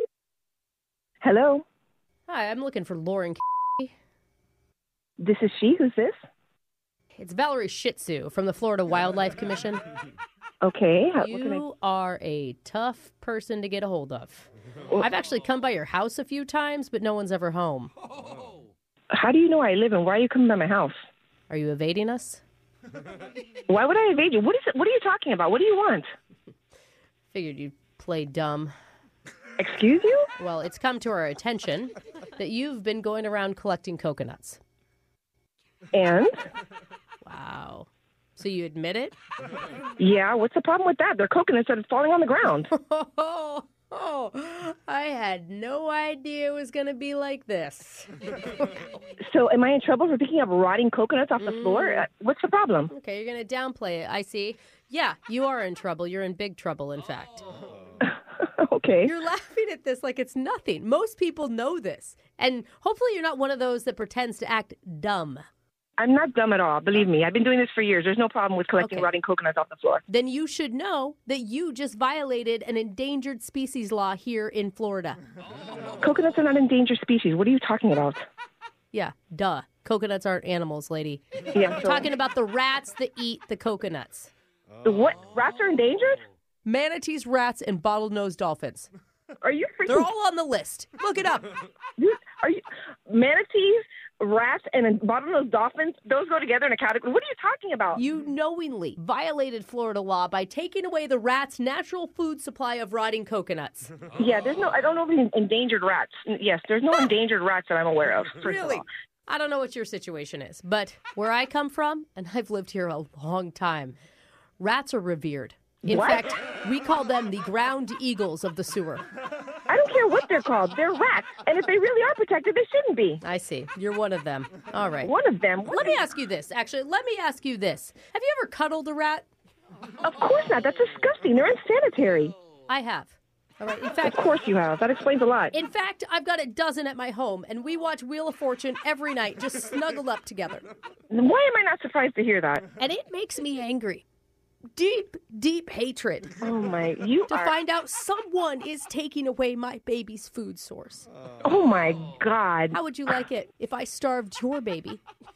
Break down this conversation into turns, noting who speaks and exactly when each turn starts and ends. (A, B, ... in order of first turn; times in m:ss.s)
0:01.2-0:01.6 A
0:02.3-0:03.9 B
0:05.2-0:06.1 A
0:07.1-0:09.8 B
0:10.6-0:11.6 A
0:11.2-0:17.9 B
0:19.1-0:20.9 A
0:21.5-0:22.4 B
0:23.7-0:26.1 A
0:27.3-0:28.7 B
0:29.6-0:30.2 A
0:30.4-0:34.6 B
0:35.9-0:36.3 A
0:37.2-0:39.2 B
0:40.0-0:42.7 A
0:42.7-0:48.6 B
0:49.2-0:52.9 A
0:51.4-0:52.0 B
0:52.9-0:57.5 B
0:58.1-0:59.1 A
0:59.0-1:05.4 B
1:06.0-1:10.0 A
1:08.8-1:09.1 B
1:10.1-1:15.2 B
1:16.0-1:18.2 A
1:18.9-1:24.3 B
1:21.5-1:22.1 A
1:24.8-1:26.2 A
1:26.6-1:28.9 B
1:29.4-1:30.1 A
1:29.9-1:31.6 B
1:32.0-1:38.0 A
1:37.9-1:43.9 B
1:44.2-1:48.8 A
1:48.4-1:54.0 B
1:54.6-1:59.0 B
1:55.8-1:56.3 A
1:59.7-2:03.2 A
2:03.2-2:05.1 B
2:05.0-2:06.0 A
2:05.6-2:09.3 B
2:10.0-2:12.3 A
2:12.7-2:14.2 B
2:14.0-2:15.5 A
2:15.5-2:20.7 B
2:21.1-2:22.7 A
2:22.8-2:24.0 B
2:24.7-2:26.4 B
2:26.4-2:27.5 A
2:27.3-2:31.1 B
2:31.4-2:32.8 A
2:32.7-2:35.0 B